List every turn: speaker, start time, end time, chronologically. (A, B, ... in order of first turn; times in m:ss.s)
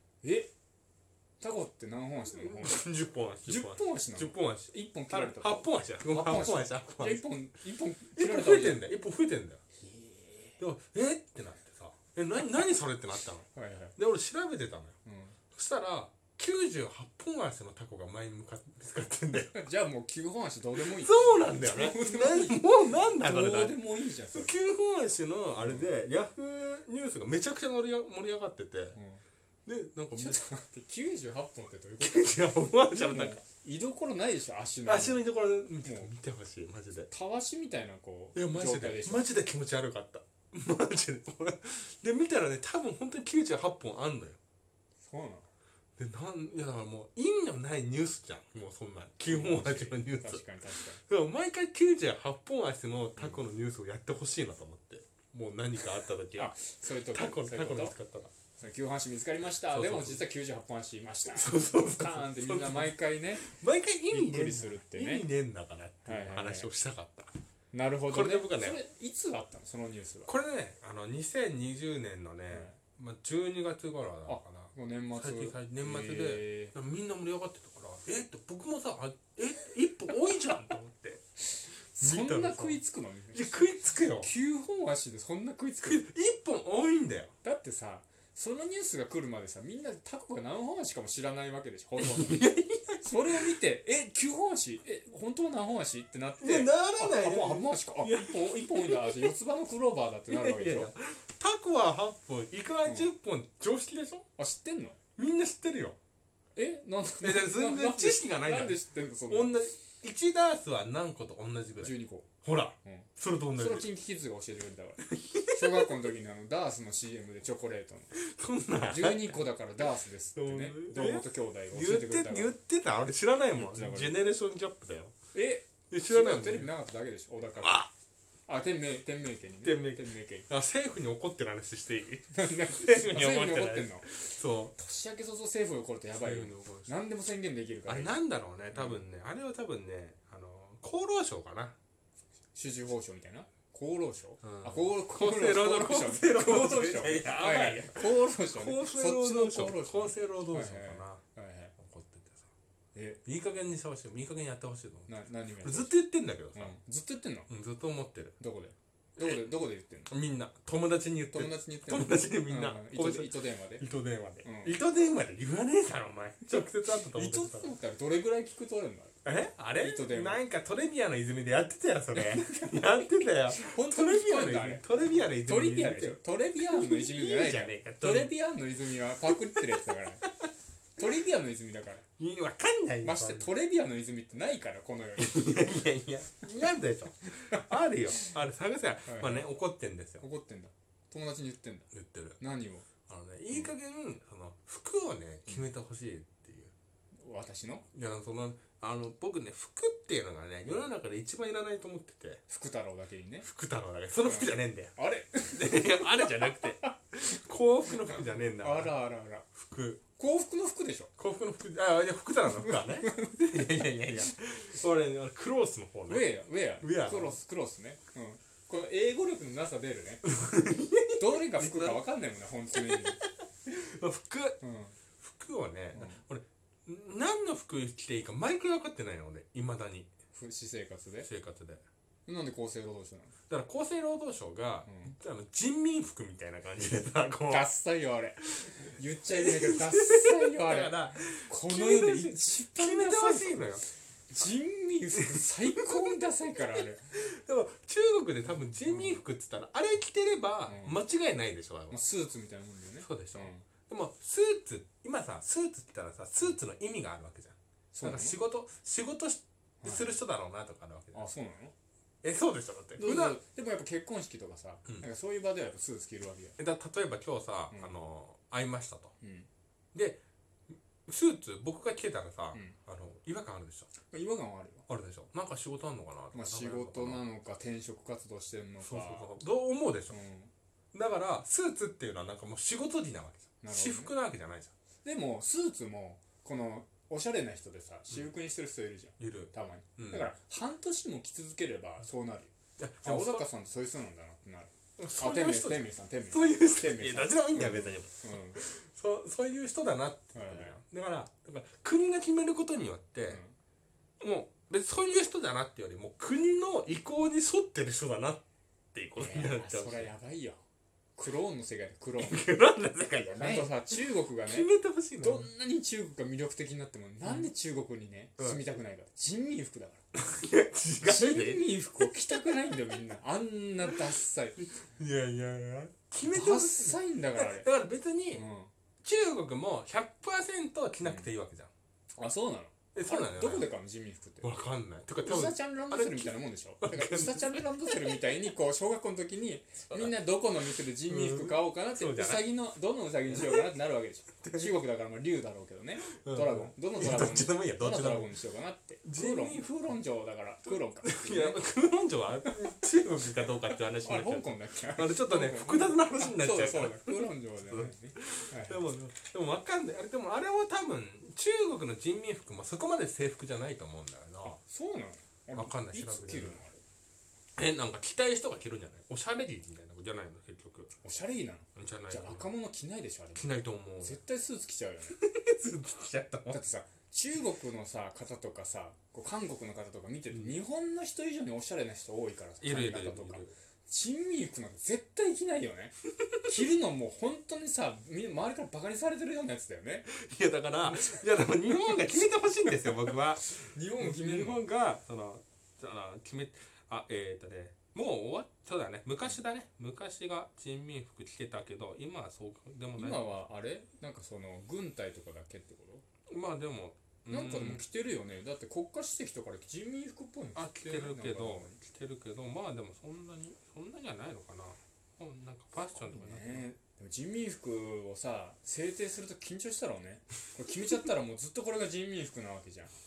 0:00.2-0:00.5 A
0:01.4-0:02.8 A
0:02.3-0:07.2 B
0:03.4-0:08.9 A
0:08.2-0:09.6 B
0:09.8-0:10.6 A
0:10.6-0:15.0 B
0:13.5-0:14.0 A
0:15.0-0:15.4 A
0:15.5-0:19.6 B
0:19.5-0:24.5 A
0:20.8-0:29.0 B
0:25.6-0:25.9 A
0:28.9-0:29.2 A
0:29.7-0:30.4 B
0:30.2-0:35.2 A
0:32.0-0:33.4 B
0:34.8-0:37.1 B
0:35.8-0:36.1 A
0:37.1-0:39.3 A
0:38.4-0:44.4 B
0:45.0-0:45.5 A
0:46.0-0:56.6 B
0:49.3-0:51.0 A
0:56.4-0:57.9 A
0:57.1-0:58.3 B
0:58.6-1:03.5 A
0:59.7-1:00.2 B
1:01.3-1:07.3 B
1:04.1-1:05.3 A
1:06.0-1:06.7 A
1:07.7-1:10.3 A
1:08.1-1:08.8 B
1:10.3-1:21.2 B
1:12.5-1:12.8 A
1:14.2-1:16.8 A
1:21.5-1:26.0 A
1:22.0-1:22.8 B
1:23.3-1:24.3 B
1:25.8-1:27.3 B
1:27.4-1:32.4 A
1:32.0-1:33.4 B
1:33.0-1:40.9 A
1:36.4-1:39.3 B
1:40.3-1:44.2 B
1:42.8-1:43.1 A
1:44.4-1:45.0 A
1:45.2-1:46.0 B
1:46.6-1:49.6 A
1:47.2-1:53.8 B
1:51.8-1:52.3 A
1:52.8-1:58.1 A
1:55.1-1:56.1 B
1:58.1-1:59.4 B
1:58.9-2:02.6 A
2:00.4-2:05.1 B
2:03.5-2:04.2 A
2:05.3-2:07.8 A
2:05.9-2:06.7 B
2:07.6-2:07.9 B
2:08.5-2:10.5 A
2:09.6-2:14.8 B
2:12.3-2:18.2 A
2:16.2-2:16.9 B
2:17.9-2:21.8 B
2:18.7-2:19.0 A
2:22.5-2:31.8 A
2:24.4-2:31.2 B
2:31.8-2:32.5 B
2:32.9-2:33.2 A
2:33.2-2:36.8 B
2:35.1-2:35.9 A
2:36.5-2:37.5 A
2:37.5-2:38.4 B
2:38.4-2:40.1 A
2:39.2-2:39.5 B
2:40.1-2:47.7 B
2:41.3-2:43.8 A
2:44.4-2:44.8 A
2:46.9-2:49.2 A
2:49.2-2:58.3 B
2:49.8-2:50.4 A
2:52.1-3:00.3 A
3:01.0-3:02.1 A
3:02.2-3:03.5 B
3:03.0-3:05.8 A
3:05.2-3:10.2 B
3:09.1-3:09.5 A
3:10.2-3:12.9 A
3:11.9-3:12.4 B
3:13.1-3:16.7 B
3:17.2-3:17.8 A
3:17.9-3:22.4 B
3:22.5-3:23.5 A
3:23.4-3:25.0 B
3:24.2-3:26.9 A
3:25.5-3:28.9 B
3:28.0-3:29.5 A
3:29.6-3:30.0 B
3:30.2-3:31.1 A
3:31.2-3:37.4 B
3:32.5-3:33.9 A
3:36.1-3:40.3 A
3:40.3-3:42.0 B
3:41.2-3:43.2 A
3:42.8-3:44.6 B
3:44.6-3:45.0 A
3:45.2-3:50.1 B
3:45.9-3:46.2 A
3:50.3-3:51.3 A
3:51.2-3:51.8 B
3:52.3-3:53.3 A
3:53.5-3:57.7 B
3:54.8-3:55.2 A
3:57.5-4:07.2 A
3:58.6-4:03.8 B
4:05.2-4:06.2 B
4:06.8-4:12.0 B
4:08.5-4:09.2 A
4:10.7-4:11.0 A
4:11.9-4:13.7 A
4:13.0-4:21.2 B
4:17.9-4:18.4 A
4:19.8-4:20.2 A
4:21.1-4:21.7 A
4:22.2-4:23.4 B
4:23.0-4:26.6 A
4:26.6-4:29.1 B
4:27.7-4:28.0 A
4:29.2-4:29.5 A
4:29.9-4:30.2 B
4:31.1-4:33.9 B
4:34.1-4:34.9 A
4:34.9-4:37.2 B
4:36.3-4:39.3 A
4:38.8-4:40.2 B
4:40.1-4:40.5 A
4:40.9-4:44.7 B
4:43.6-4:44.1 A
4:45.0-4:52.5 A
4:49.2-4:50.3 B
4:52.8-4:53.5 B
4:53.0-4:58.6 A
4:55.0-5:03.4 B
5:00.3-5:00.8 A
5:03.3-5:03.5 A
5:04.2-5:10.1 B
5:09.2-5:10.6 A
5:11.2-5:12.5 A
5:12.2-5:15.5 B
5:13.3-5:20.0 A
5:20.1-5:22.8 B
5:21.0-5:24.7 A
5:24.6-5:28.4 B
5:26.2-5:27.7 A
5:28.3-5:28.7 A
5:29.0-5:31.7 B
5:31.0-5:31.3 A
5:32.2-5:34.6 A
5:32.9-5:33.7 B
5:34.4-5:38.2 B
5:35.2-5:51.6 A
5:41.0-5:42.5 B
5:43.3-5:43.7 B
5:44.4-5:44.8 B
5:46.2-5:48.4 B
5:49.0-5:49.7 B
5:50.7-6:04.6 B
5:52.4-5:52.8 A
5:53.7-5:58.8 A
6:04.6-6:06.8 A
6:05.6-6:06.6 B
6:07.6-6:10.9 B
6:11.0-6:13.5 A
6:11.8-6:12.5 B
6:13.4-6:14.2 B
6:14.0-6:15.2 A
6:15.1-6:16.6 B
6:16.5-6:30.1 A
6:22.6-6:23.5 B
6:30.1-6:43.2 B
6:30.9-6:31.2 A
6:33.4-6:34.6 A
6:43.0-6:46.0 A
6:46.3-6:47.8 B
6:47.3-6:51.8 A
6:50.6-6:56.7 B
6:55.8-7:02.9 A